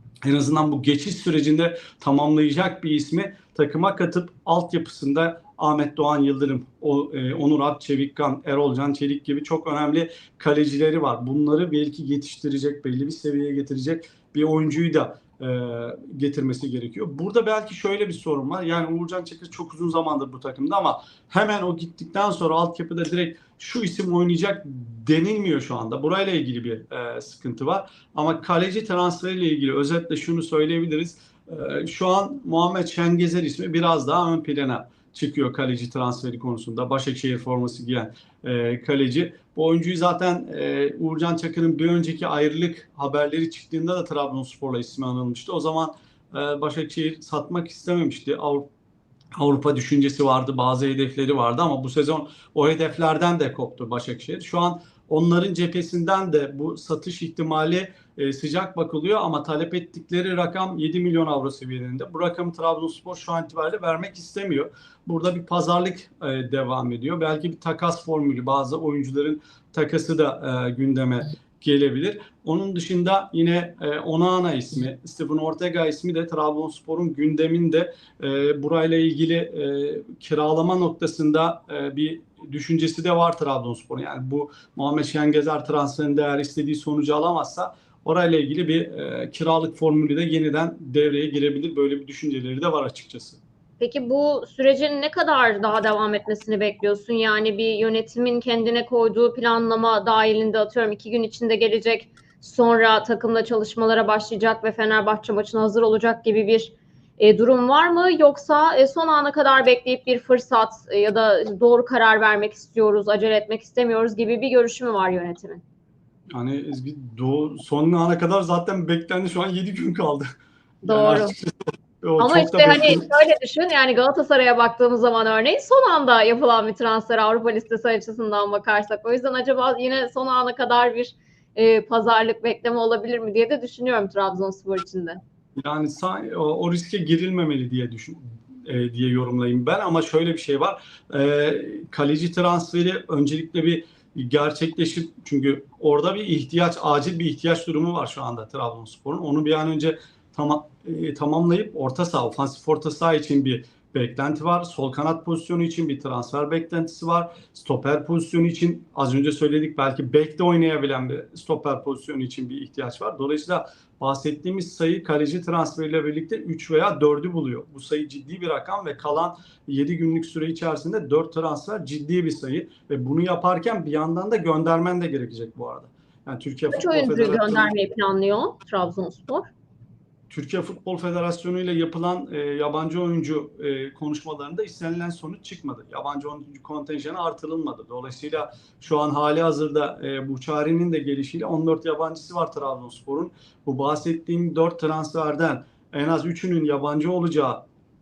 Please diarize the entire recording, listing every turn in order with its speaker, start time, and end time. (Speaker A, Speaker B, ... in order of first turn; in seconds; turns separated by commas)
Speaker A: 0.2-48.7, Speaker A: 49.4-93.4, Speaker B: 93.8-115.6, Speaker A: 116.3-120.3, Speaker B: 120.8-121.3, Speaker A: 120.8-123.0, Speaker B: 122.2-135.2, Speaker A: 135.6-177.7, Speaker B: 176.7-179.5, Speaker A: 180.3-197.6